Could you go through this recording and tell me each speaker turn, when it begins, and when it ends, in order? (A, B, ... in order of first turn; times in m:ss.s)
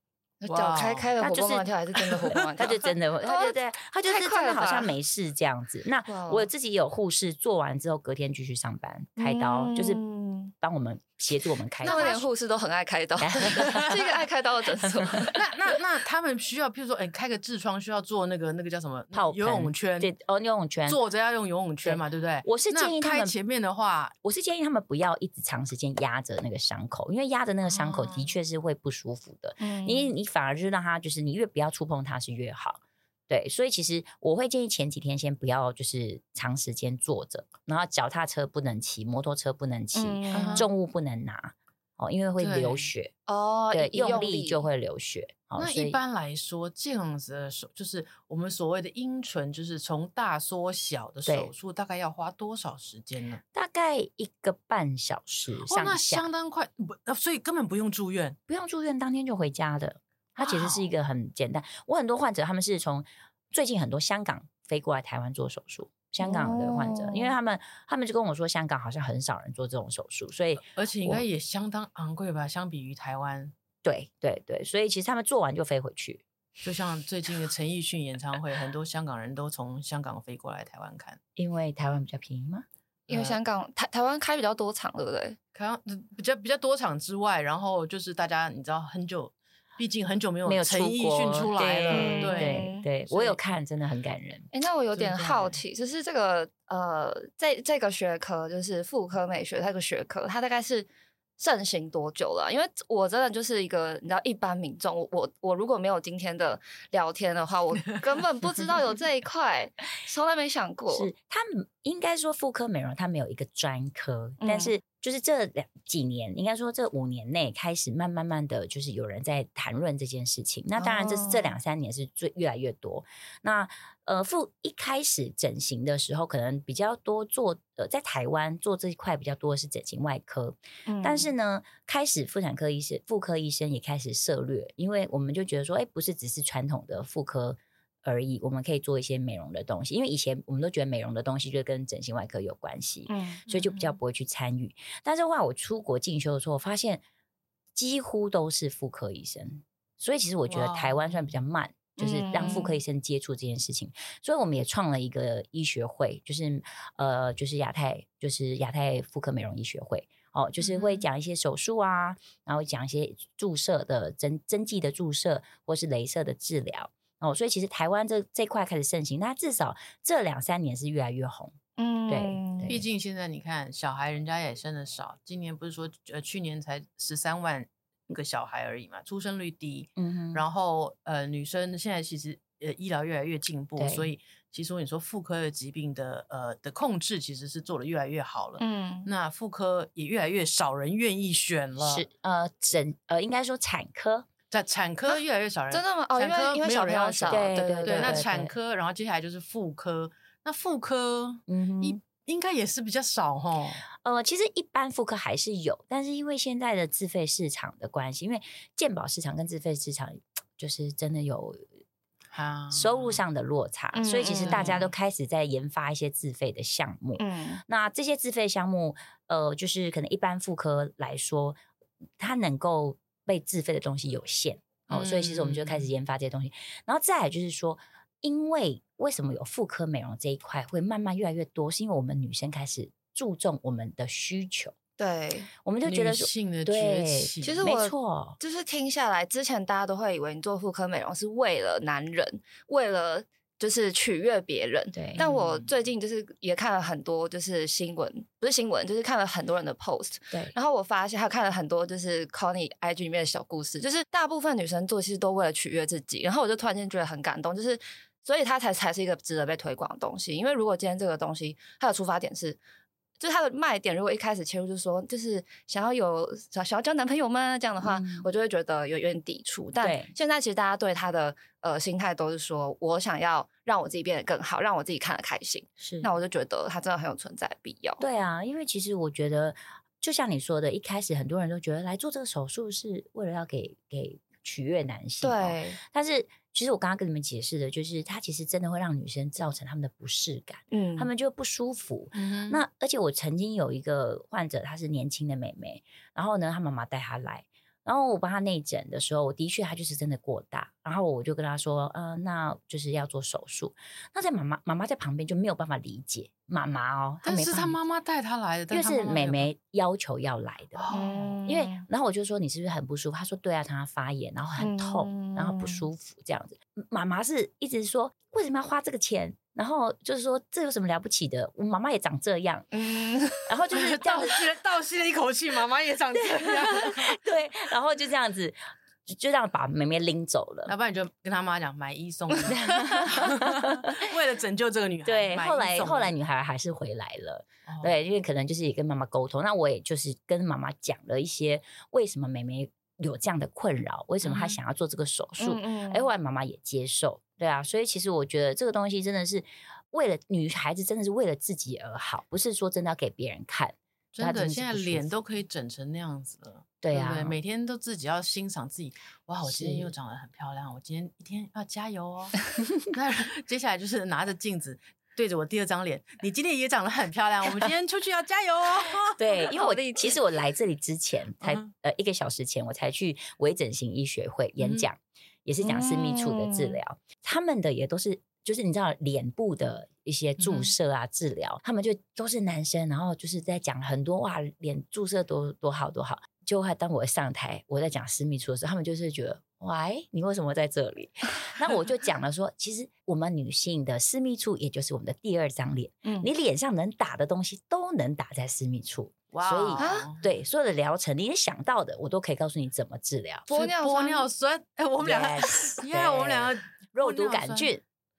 0:00.4-0:04.9 A
0:00.5-0:01.1 B
0:01.2-0:01.7 C
0:02.0-0:02.3 B
0:02.6-0:10.0 C
0:06.1-0:06.5 A
0:09.2-0:10.5 A
0:10.6-0:12.2 C
0:11.8-0:15.4 A
0:11.9-0:12.1 B
0:13.2-0:14.0 C
0:13.5-0:13.9 B
0:14.8-0:15.3 C
0:15.3-0:20.1 B
0:19.1-0:21.0 C
0:20.9-0:24.1 B
0:21.8-0:23.3 C
0:24.2-0:43.1 C
0:27.7-0:28.2 B
0:29.6-0:30.1 A
0:39.9-0:40.7 A
0:40.3-0:40.7 B
0:42.4-0:42.9 B
0:43.3-0:44.6 A
0:43.7-0:46.0 C
0:45.6-0:53.4 B
0:51.2-0:51.5 C
0:53.5-0:56.3 C
0:55.6-0:58.4 B
0:58.5-1:11.2 C
1:00.4-1:00.8 B
1:06.2-1:07.3 A
1:10.7-1:13.5 B
1:13.8-1:16.2 C
1:16.6-1:21.2 B
1:21.4-1:22.6 C
1:23.1-1:23.4 B
1:23.1-1:25.4 A
1:25.5-1:33.4 B
1:30.4-1:34.5 C
1:31.9-1:32.9 A
1:34.5-1:40.9 A
1:34.9-1:35.6 B
1:41.4-1:51.1 A
1:50.9-2:27.0 C
1:54.4-1:54.7 A
2:00.8-2:01.5 A
2:10.9-2:11.3 A
2:23.1-2:23.4 A
2:23.5-2:24.0 B
2:27.7-2:51.5 C
2:30.5-2:31.2 B
2:32.0-2:32.8 A
2:40.6-2:41.0 B
2:51.8-2:52.7 A
2:52.1-2:52.8 C
2:52.7-3:12.0 B
3:00.0-3:00.4 C
3:03.8-3:04.1 C
3:08.6-3:09.1 A
3:11.8-3:14.3 C
3:14.5-3:23.8 B
3:15.7-3:18.2 A
3:17.3-3:18.5 C
3:21.5-3:22.0 C
3:24.0-3:31.7 C
3:32.3-3:33.2 B
3:32.7-3:41.6 C
3:33.9-3:34.8 A
3:34.4-3:34.9 B
3:37.2-3:37.6 A
3:42.2-3:54.7 C
3:44.9-3:45.9 B
3:55.0-3:55.5 A
3:55.6-3:58.4 C
3:55.8-3:57.6 B
3:57.4-4:22.6 A
4:04.9-4:05.2 C
4:05.2-4:05.6 B
4:23.2-4:38.0 A
4:27.8-4:28.2 C
4:29.8-4:30.1 C
4:35.8-4:36.1 C
4:38.0-5:07.8 C
4:45.2-4:45.8 A
4:50.7-4:51.1 A
4:52.1-4:52.6 B
5:07.2-5:09.5 B
5:08.7-5:10.8 C
5:10.8-5:11.4 B
5:10.9-5:11.8 A
5:11.4-5:22.7 C
5:14.6-5:15.9 A
5:22.7-5:23.5 A
5:23.4-5:24.4 C
5:23.7-5:27.2 B
5:26.1-5:30.7 C
5:30.7-5:36.1 B
5:32.5-5:34.1 C
5:35.0-5:55.1 C
5:37.7-5:38.0 B
5:44.2-5:44.6 B
5:45.4-5:46.1 A
5:54.1-6:09.2 B
5:56.8-5:57.4 C
5:59.4-5:59.9 C
6:09.2-6:43.5 C
6:09.4-6:10.2 A
6:11.4-6:11.7 B
6:14.6-6:14.9 B
6:15.6-6:16.8 A
6:20.4-6:20.7 B
6:36.0-6:36.3 A
6:39.3-6:40.3 B
6:39.8-6:40.1 A
6:43.5-6:44.3 A
6:43.5-6:47.7 B
6:45.0-6:47.8 C